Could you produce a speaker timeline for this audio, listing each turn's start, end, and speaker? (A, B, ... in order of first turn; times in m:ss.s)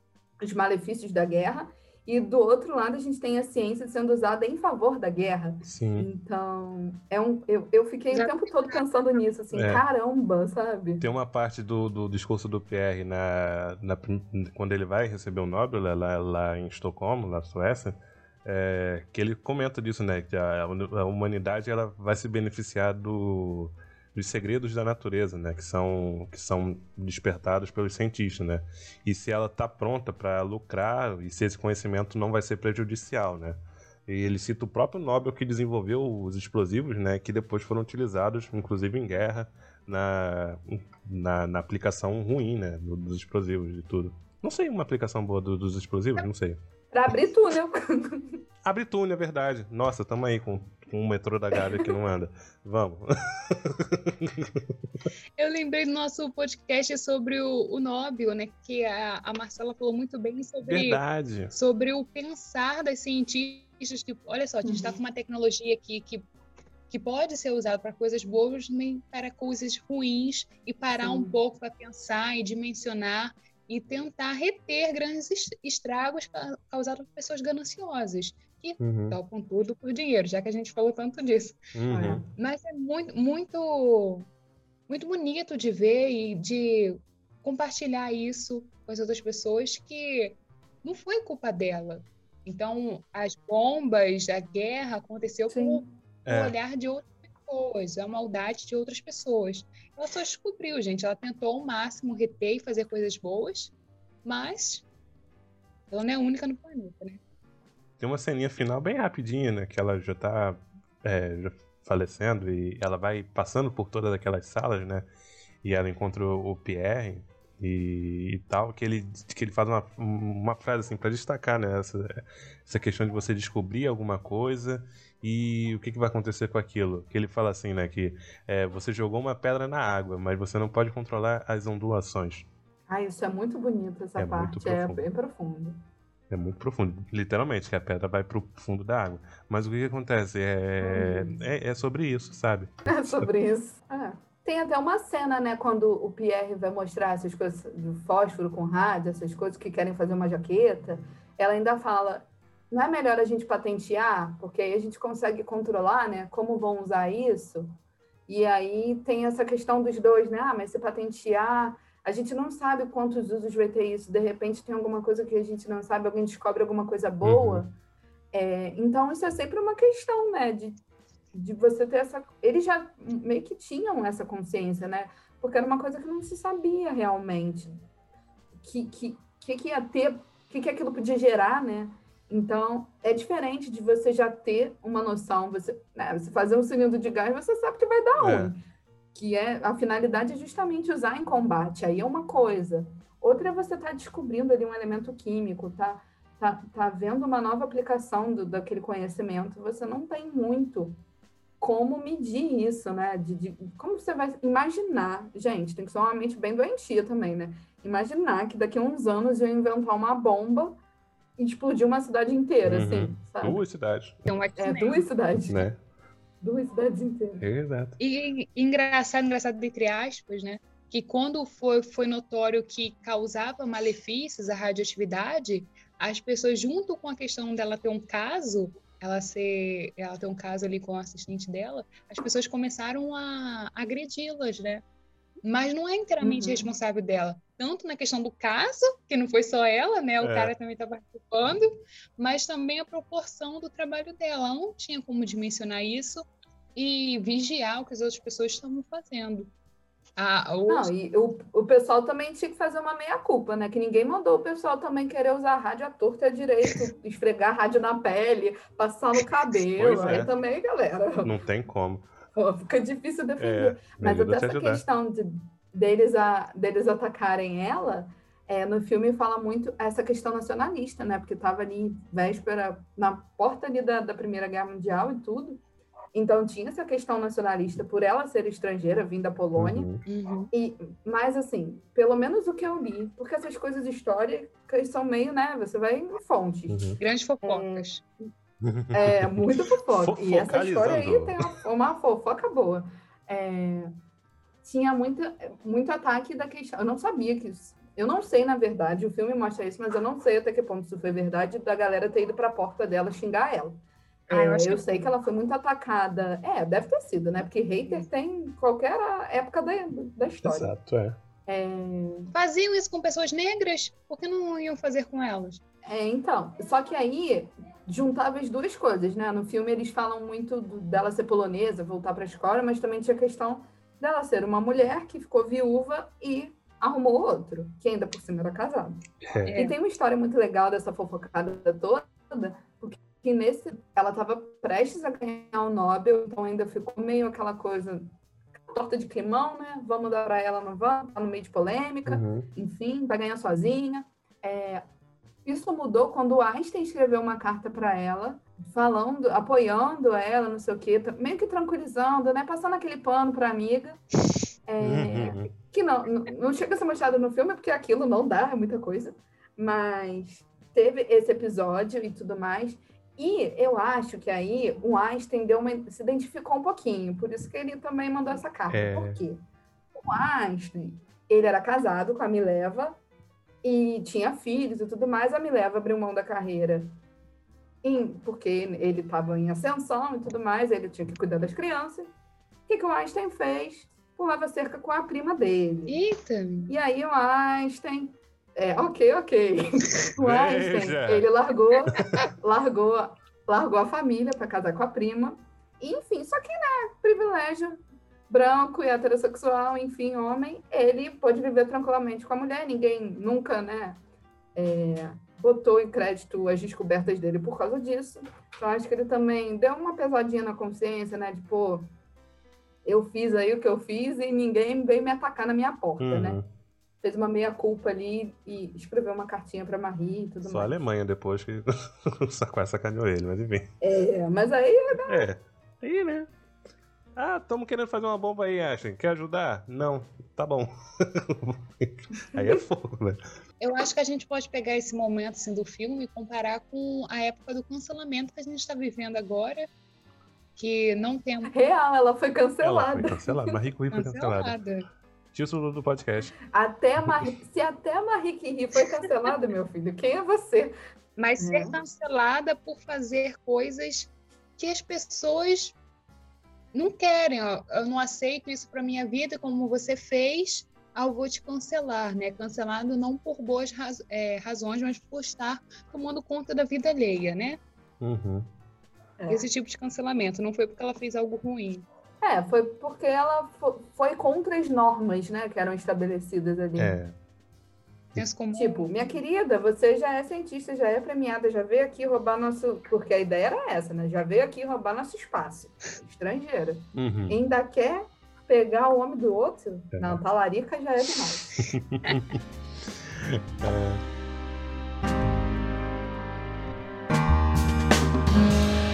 0:00.4-0:11.0 A
0:05.6-0:06.1 B
0:08.1-0:08.8 C
0:09.5-0:09.8 B
0:11.0-0:46.6 B
0:46.9-0:48.4 A
0:48.6-0:54.6 B
0:55.4-1:06.3 C
1:00.6-1:01.5 B
1:04.6-1:05.0 A
1:06.9-1:21.6 C
1:10.9-1:11.3 A
1:18.8-1:19.2 B
1:21.7-1:22.2 B
1:21.9-1:22.2 A
1:22.4-1:24.3 C
1:24.9-1:43.7 C
1:35.5-1:35.8 A
1:36.2-1:36.5 B
1:44.2-1:44.9 C
1:45.9-1:47.2 C
1:48.0-1:55.1 B
1:55.6-2:12.5 B
2:12.9-2:15.8 A
2:14.2-2:15.0 B
2:16.3-2:23.3 B
2:20.8-2:21.4 A
2:22.9-2:37.7 A
2:38.3-2:47.7 A
2:47.2-2:47.6 B
2:48.3-2:50.8 A
2:51.3-2:57.7 A
2:58.6-3:08.6 A
3:08.2-3:08.5 B
3:09.1-3:21.0 A
3:21.6-3:30.8 A
3:31.4-3:33.6 A
3:32.6-3:34.3 B
3:34.2-3:35.0 C
3:34.6-3:35.7 A
3:35.5-3:35.8 B
3:36.4-3:37.5 A
3:37.4-3:38.0 B
3:38.0-3:54.8 C
3:55.4-4:06.2 C
3:56.2-3:56.7 A
4:00.2-4:00.5 B
4:06.8-4:09.5 C
4:10.2-4:10.9 C
4:10.7-4:21.3 A
4:19.8-4:20.3 B
4:21.2-4:22.1 B
4:22.3-4:35.6 A
4:23.4-4:24.8 B
4:36.1-4:39.9 A
4:39.6-4:40.0 B
4:40.1-4:40.5 C
4:40.5-4:48.3 A
4:46.7-4:47.0 B
4:47.0-4:48.0 C
4:48.6-4:51.5 B
4:48.9-4:53.9 A
4:54.6-5:10.7 A
5:04.3-5:04.9 C
5:10.4-5:11.2 B
5:11.5-5:12.3 A
5:12.3-5:15.6 C
5:15.8-5:29.0 A
5:29.2-5:29.6 B
5:29.4-5:29.8 C
5:29.5-5:38.1 A
5:38.7-5:44.8 A
5:42.1-5:42.5 B
5:45.4-5:54.0 A
5:54.7-6:09.4 A
5:54.8-5:55.5 B
6:08.7-6:09.2 B
6:09.9-6:13.0 A
6:13.6-6:16.9 A
6:17.8-6:22.1 A
6:22.7-6:26.0 A
6:25.9-6:26.7 C
6:26.7-6:44.0 A
6:30.2-6:31.3 B
6:44.6-6:51.9 A
6:52.8-6:56.4 A
6:56.0-6:56.5 B
6:57.0-7:00.8 A
7:00.4-7:03.7 B
7:03.8-7:05.3 A
7:05.1-7:06.3 B
7:07.2-7:13.2 B
7:12.3-7:12.6 A
7:13.6-7:19.7 C
7:20.6-7:21.5 C
7:21.5-7:23.3 A
7:22.6-7:24.6 B
7:23.9-7:24.8 C
7:25.3-7:26.3 B
7:26.5-7:30.7 A
7:31.2-7:35.8 C
7:31.4-7:31.8 A
7:36.7-7:47.6 C
7:48.0-7:48.5 B
7:49.2-7:49.4 A
7:49.3-7:51.8 C
7:52.2-7:57.0 A
7:56.8-7:57.2 B
7:58.2-7:58.9 C
7:58.5-8:11.5 A
8:06.9-8:07.4 B
8:09.9-8:10.2 B
8:11.7-8:14.0 B